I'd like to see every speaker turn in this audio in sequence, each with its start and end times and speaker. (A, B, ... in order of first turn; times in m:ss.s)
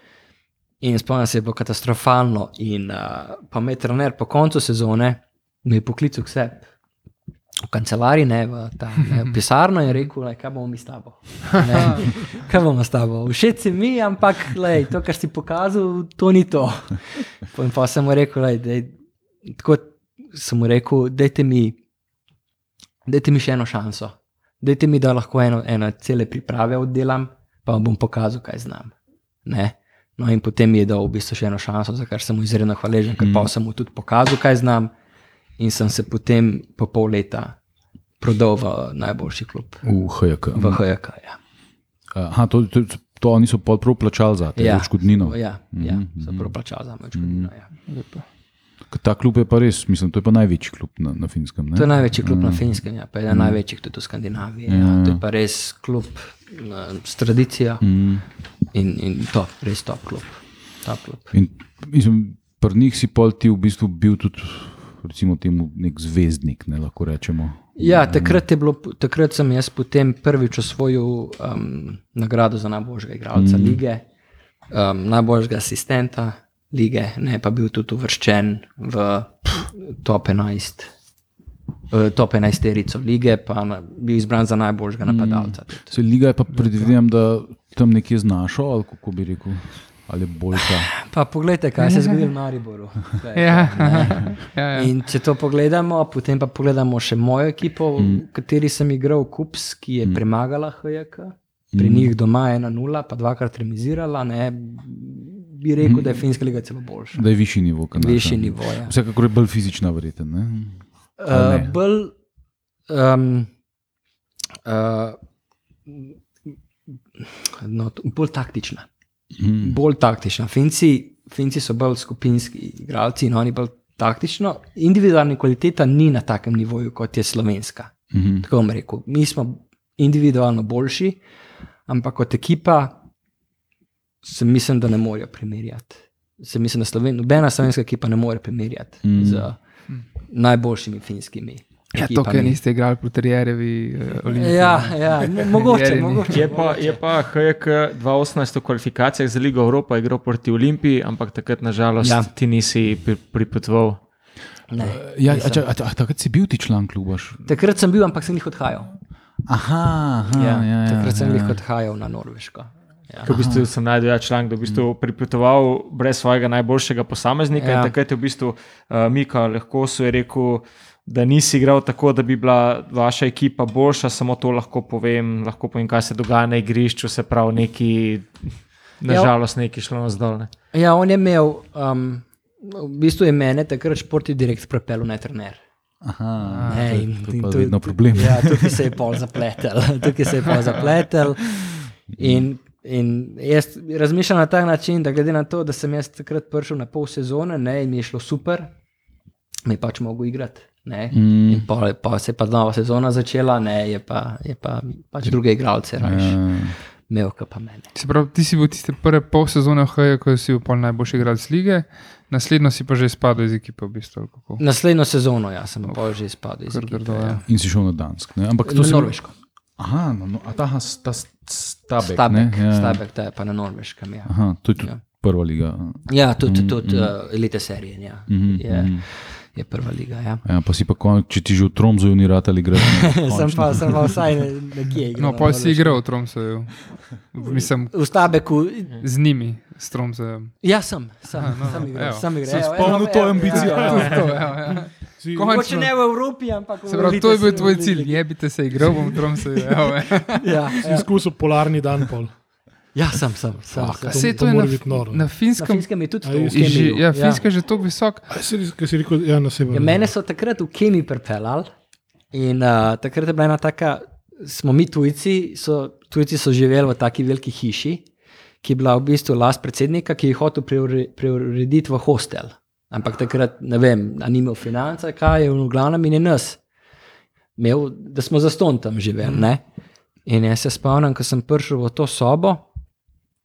0:00.8-0:06.7 A
0:07.7-0:19.0 A
0:19.5-0:21.8 A
0:23.1-0:28.9 A
0:29.4-0:34.9 A
0:33.2-0:33.5 B
0:35.6-0:37.6 A
0:38.2-0:39.9 A
0:39.8-0:40.8 B
0:40.5-0:41.4 A
0:42.1-0:46.5 B
0:44.6-0:47.7 A
0:47.2-0:47.5 B
0:47.9-0:48.2 C
0:48.9-0:53.6 B
0:51.8-0:57.8 A
0:54.7-0:55.2 B
0:57.8-0:58.2 B
0:58.7-1:01.3 A
1:01.3-1:08.4 B
1:07.8-1:14.0 A
1:13.3-1:13.8 B
1:14.7-1:20.9 A
1:21.9-1:26.0 A
1:25.0-1:30.9 B
1:31.0-1:47.2 A
1:31.8-1:32.2 C
1:33.4-1:34.9 C
1:38.0-1:38.2 B
1:41.7-1:42.1 B
1:45.8-1:46.2 B
1:47.1-1:51.8 B
1:48.0-1:48.9 A
1:51.2-1:52.1 A
1:52.9-1:53.5 A
1:54.6-1:55.2 A
1:55.9-1:56.5 A
1:57.2-1:58.9 A
1:59.4-1:59.8 B
1:59.6-2:11.2 A
2:08.1-2:08.5 B
2:11.9-2:13.0 A
2:14.2-2:19.6 A
2:19.0-2:19.5 B
2:20.3-2:22.6 A
2:22.0-2:26.4 C
2:24.3-2:27.0 A
2:26.3-2:34.0 D
2:32.0-2:32.3 A
2:34.7-2:35.6 A
2:34.8-2:37.4 B
2:37.4-2:38.9 A
2:39.5-2:41.6 B
2:40.3-2:43.3 A
2:43.2-3:00.5 D
2:43.3-2:43.7 B
2:47.6-2:47.9 A
3:00.7-3:05.6 A
3:06.0-3:09.0 B
3:06.4-3:06.9 C
3:06.6-3:11.6 A
3:12.1-3:12.5 B
3:12.2-3:18.7 A
3:19.7-3:26.4 A
3:21.1-3:21.6 B
3:26.0-3:26.8 B
3:27.1-3:27.9 A
3:28.0-3:34.6 C
3:34.6-3:37.4 A
3:36.7-3:37.4 C
3:37.5-3:39.2 B
3:38.6-3:39.4 A
3:39.8-3:43.0 B
3:42.0-3:45.0 A
3:44.3-3:47.1 B
3:46.1-3:50.4 A
3:48.3-3:49.1 B
3:50.4-3:54.3 B
3:52.8-3:56.0 A
3:55.2-3:58.5 C
3:57.9-3:59.0 A
3:59.0-4:00.6 C
4:00.6-4:04.5 A
4:01.3-4:05.9 C
4:02.4-4:04.2 B
4:05.2-4:05.5 E
4:05.4-4:08.2 A
4:06.9-4:10.7 C
4:08.8-4:09.2 A
4:10.3-4:11.1 A
4:10.8-4:12.3 E
4:13.0-4:14.5 A
4:14.1-4:15.3 E
4:14.1-4:15.9 C
4:15.6-4:17.4 A
4:16.2-4:16.8 E
4:16.5-4:18.3 C
4:18.3-4:20.1 E
4:19.7-4:21.7 A
4:22.3-4:28.0 A
4:28.6-4:36.6 A
4:37.6-4:39.6 A
4:40.3-4:42.6 A